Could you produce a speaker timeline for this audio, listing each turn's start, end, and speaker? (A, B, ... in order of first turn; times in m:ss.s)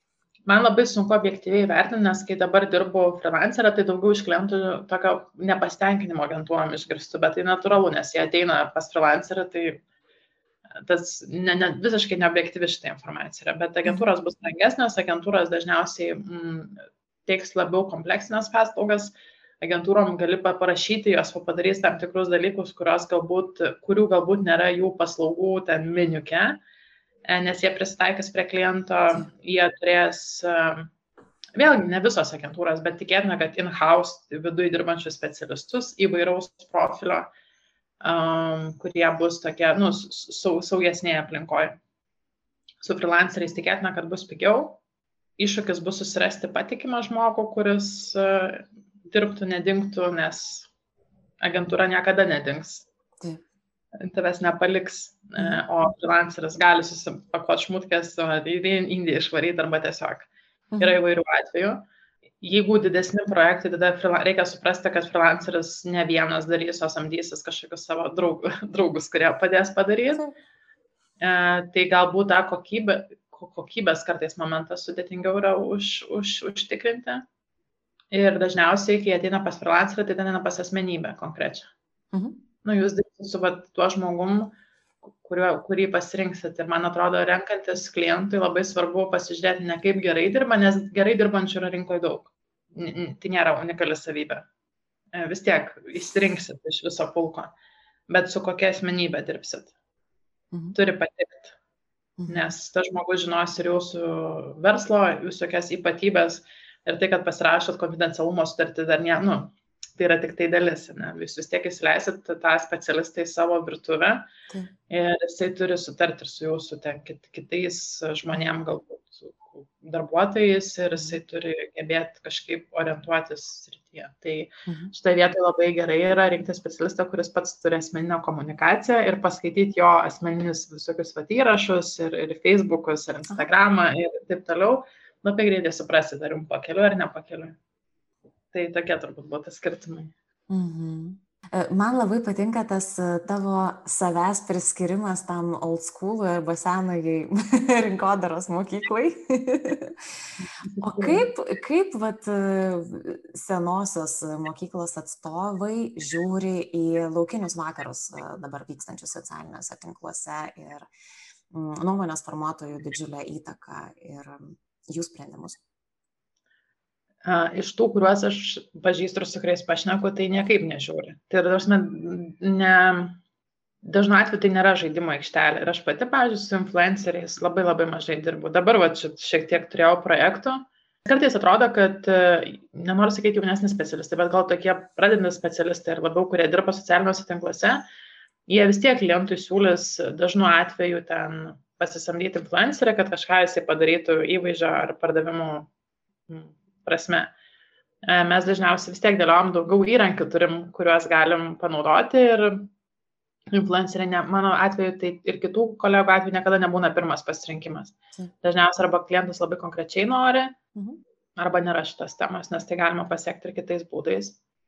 0:00.5-0:09.8 A
0:10.8-0:26.6 A
0:27.3-0:30.9 A
0:31.6-0:37.3 A
0:38.0-0:41.8 A
0:42.8-0:44.8 A
0:45.4-0:50.7 A
0:51.4-0:52.9 A
0:54.0-1:00.3 A
1:00.7-1:01.0 B
1:00.8-1:01.8 A
1:02.4-1:10.2 A
1:11.2-1:17.2 A
1:18.1-1:21.7 A
1:22.1-1:22.4 B
1:22.6-1:24.5 A
1:25.2-1:34.5 A
1:35.1-1:37.5 A
1:38.1-1:39.7 A
1:40.7-1:41.6 A
1:42.2-1:42.5 B
1:42.3-1:54.3 A
1:54.9-2:17.6 A
2:04.7-2:04.9 B
2:18.5-2:20.1 A
2:20.5-2:30.0 B
2:30.8-2:40.9 B
2:30.8-2:31.3 A
2:41.5-2:45.6 B
2:47.2-2:53.2 A
2:53.8-3:07.8 A
3:08.5-3:15.7 A
3:16.3-3:17.3 A
3:18.0-3:22.7 A
3:23.5-3:30.6 A
3:30.7-3:31.0 B
3:31.4-3:34.4 A